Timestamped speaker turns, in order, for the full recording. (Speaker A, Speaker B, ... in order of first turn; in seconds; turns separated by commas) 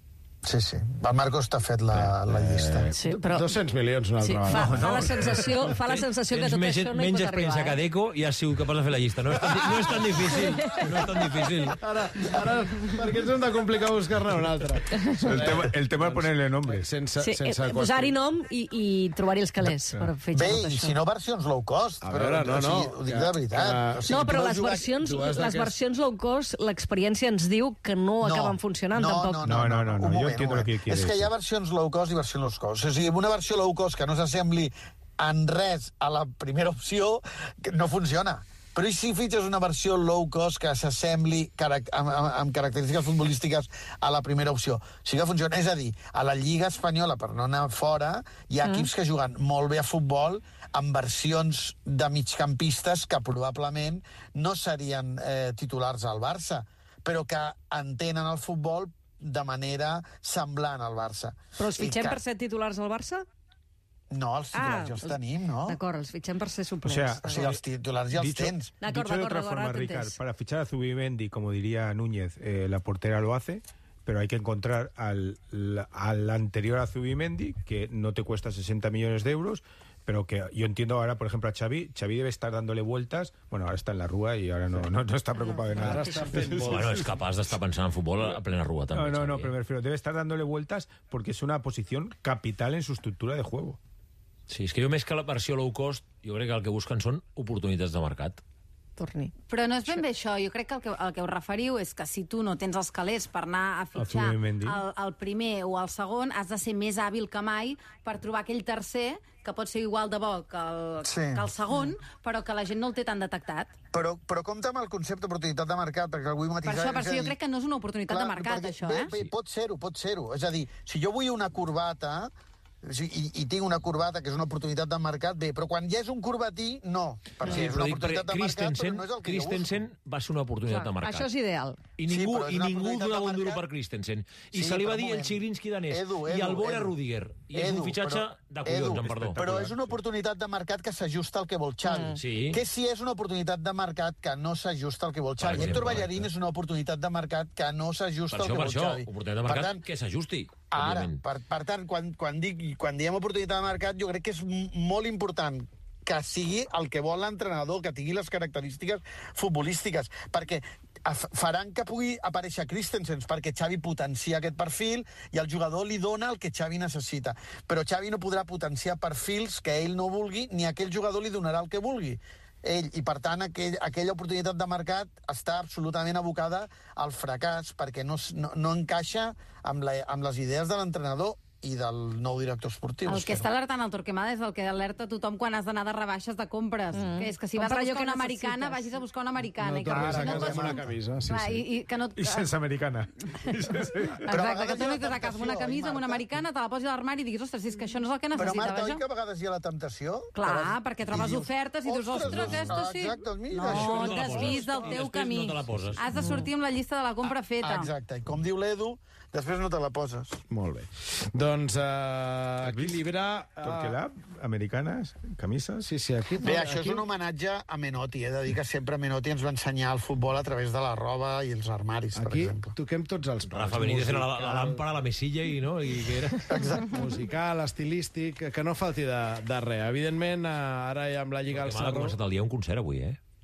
Speaker A: 0.4-2.9, Speaker B: 2.3-4.7, Speaker C: 2.9-3.5, Speaker C: 4.2-7.8, Speaker D: 4.5-5.5, Speaker E: 5.7-11.8, Speaker C: 10.3-11.0, Speaker B: 11.8-18.1, Speaker D: 15.2-16.9, Speaker C: 17.2-21.0, Speaker D: 19.6-20.1, Speaker A: 20.3-24.9, Speaker B: 22.0-24.0, Speaker C: 24.1-29.4, Speaker B: 25.1-25.7, Speaker A: 28.2-62.2, Speaker D: 29.4-31.3, Speaker C: 61.6-63.2, Speaker A: 64.1-65.8, Speaker C: 64.5-65.2, Speaker C: 65.7-67.5, Speaker D: 66.8-67.6, Speaker A: 67.2-68.7, Speaker D: 68.1-87.1, Speaker C: 68.8-70.2, Speaker C: 85.4-86.3, Speaker B: 85.8-86.7, Speaker E: 86.6-89.5, Speaker D: 88.9-93.8, Speaker E: 94.5-98.4, Speaker C: 99.0-99.3, Speaker F: 99.5-113.7, Speaker D: 103.9-104.8, Speaker A: 111.0-111.5, Speaker A: 113.9-117.3, Speaker F: 116.6-119.2, Speaker A: 118.1-122.3, Speaker A: 122.8-129.8, Speaker E: 127.4-131.3, Speaker C: 130.7-131.8, Speaker E: 132.0-139.9, Speaker A: 132.1-133.6, Speaker A: 134.5-137.0, Speaker A: 137.5-149.8, Speaker C: 141.8-142.2, Speaker E: 142.2-142.6, Speaker E: 145.4-146.3, Speaker E: 148.3-151.2, Speaker A: 150.7-183.4, Speaker F: 183.1-192.5, Speaker C: 186.9-189.0, Speaker B: 189.6-191.6, Speaker A: 189.9-190.8, Speaker D: 192.2-194.3, Speaker F: 194.2-199.0, Speaker A: 194.3-196.3, Speaker A: 198.3-204.9, Speaker F: 200.3-207.9, Speaker E: 203.6-206.1, Speaker C: 206.1-206.5, Speaker A: 207.6-210.4, Speaker B: 210.5-214.0, Speaker D: 212.6-213.1, Speaker D: 213.6-215.9, Speaker B: 215.8-217.0, Speaker A: 216.4-222.7, Speaker B: 222.1-224.8, Speaker E: 223.5-226.5, Speaker A: 226.5-227.0, Speaker B: 226.9-232.2, Speaker E: 231.5-233.2